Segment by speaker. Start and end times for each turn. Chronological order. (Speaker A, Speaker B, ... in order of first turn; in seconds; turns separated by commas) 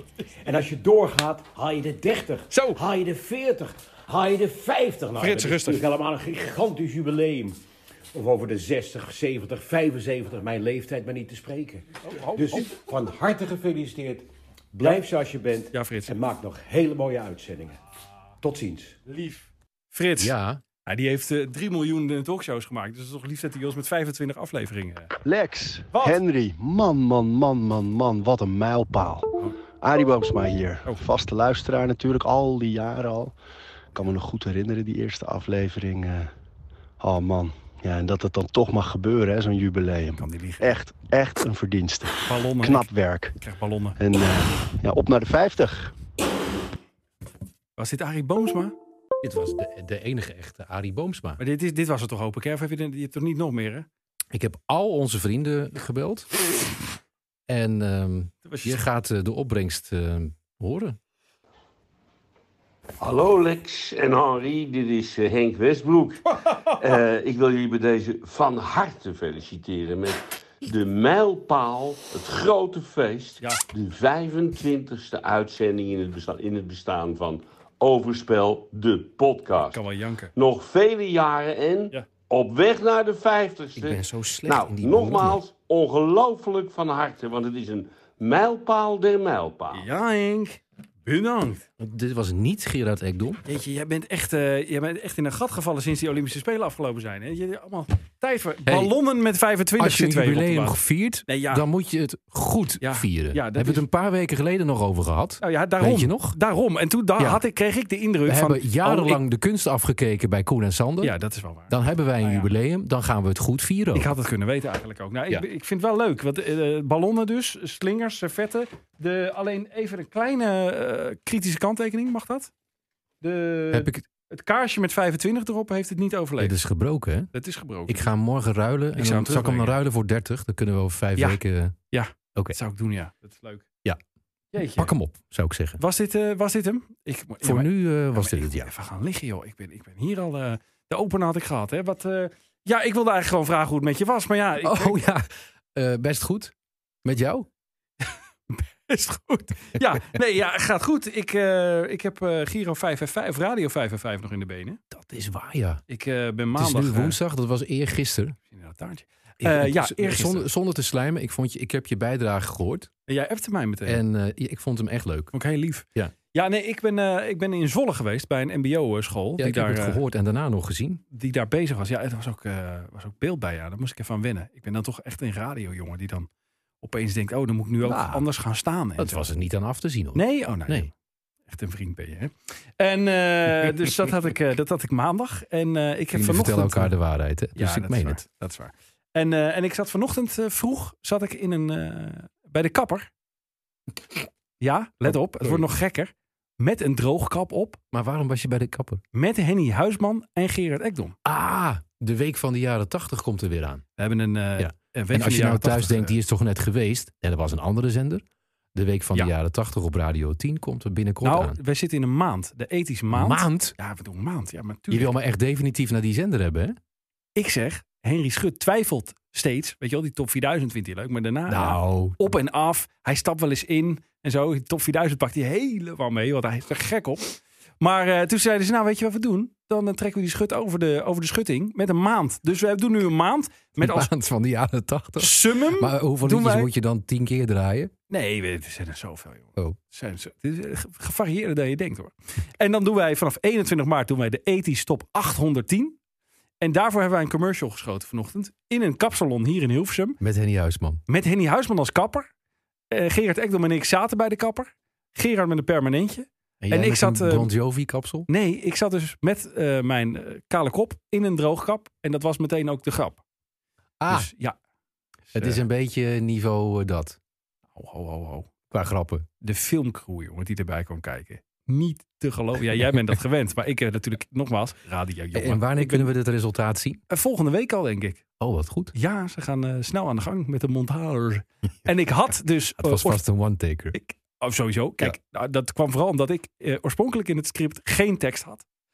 Speaker A: 0.4-7.6, Speaker B: 2.5-2.8, Speaker B: 5.2-5.8, Speaker A: 8.1-17.8, Speaker B: 12.0-12.7, Speaker B: 15.7-16.1, Speaker A: 18.4-19.0, Speaker B: 19.1-20.3, Speaker C: 20.2-20.6, Speaker B: 20.9-25.1, Speaker D: 25.2-29.3, Speaker B: 25.9-26.2, Speaker D: 29.8-33.3, Speaker D: 33.9-36.3, Speaker D: 37.0-43.4, Speaker B: 40.1-40.6, Speaker B: 42.3-42.9, Speaker B: 43.4-44.0, Speaker D: 44.0-45.9, Speaker B: 47.8-48.7, Speaker C: 49.2-51.4, Speaker B: 51.4-53.9, Speaker C: 54.3-56.3, Speaker C: 57.5-61.0, Speaker B: 58.5-58.8, Speaker E: 63.0-66.2, Speaker E: 66.8-79.8, Speaker B: 79.6-80.3, Speaker E: 80.4-89.8, Speaker C: 83.8-85.4, Speaker B: 89.7-91.7, Speaker C: 91.8-93.4, Speaker B: 93.5-100.8, Speaker C: 98.7-98.9, Speaker C: 99.8-106.4, Speaker B: 101.3-101.7, Speaker B: 102.8-103.8, Speaker B: 105.4-109.2, Speaker C: 107.2-107.4, Speaker C: 108.3-111.1, Speaker B: 111.0-112.5, Speaker C: 111.7-114.1, Speaker B: 113.9-122.5, Speaker B: 123.2-126.6, Speaker C: 123.7-124.0, Speaker C: 126.4-127.3, Speaker B: 127.3-128.1, Speaker C: 127.9-131.8, Speaker B: 129.0-129.8, Speaker B: 131.9-133.7, Speaker B: 134.5-134.9, Speaker C: 134.6-135.8, Speaker B: 135.8-145.0, Speaker C: 137.4-138.7, Speaker C: 144.6-146.5, Speaker C: 147.0-147.5, Speaker B: 148.5-154.8, Speaker C: 154.9-155.8, Speaker B: 155.9-157.2, Speaker C: 156.6-158.4, Speaker B: 158.5-160.5, Speaker C: 159.4-162.9, Speaker B: 163.1-164.0, Speaker C: 163.8-165.3, Speaker B: 165.3-170.0, Speaker C: 169.4-171.0, Speaker B: 171.1-176.3, Speaker B: 176.8-179.2, Speaker C: 177.8-178.3, Speaker C: 179.0-180.9, Speaker B: 180.2-180.9, Speaker B: 181.5-186.9, Speaker C: 186.1-188.2, Speaker B: 187.6-193.1, Speaker B: 194.6-197.8, Speaker C: 197.9-199.0, Speaker B: 199.1-201.2, Speaker C: 201.2-203.8, Speaker B: 204.0-206.1, Speaker C: 204.6-208.2, Speaker C: 208.8-211.6, Speaker B: 211.2-215.1, Speaker C: 213.1-213.7, Speaker C: 214.9-216.8, Speaker B: 217.4-234.1, Speaker C: 221.5-222.2, Speaker C: 233.8-237.9, Speaker B: 235.2-236.7, Speaker B: 238.1-246.0, Speaker B: 246.6-250.2, Speaker C: 250.2-251.0, Speaker B: 251.1-252.3, Speaker B: 252.9-257.5, Speaker C: 256.6-258.3, Speaker B: 258.3-263.2, Speaker C: 264.0-264.3, Speaker B: 264.1-264.6, Speaker B: 265.3-265.6, Speaker C: 265.4-267.2, Speaker B: 267.8-268.5, Speaker C: 268.7-269.3, Speaker B: 269.4-276.1, Speaker C: 275.3-277.0, Speaker B: 277.1-278.2, Speaker C: 278.4-278.9, Speaker B: 278.9-283.2, Speaker C: 282.8-284.0, Speaker B: 283.9-288.6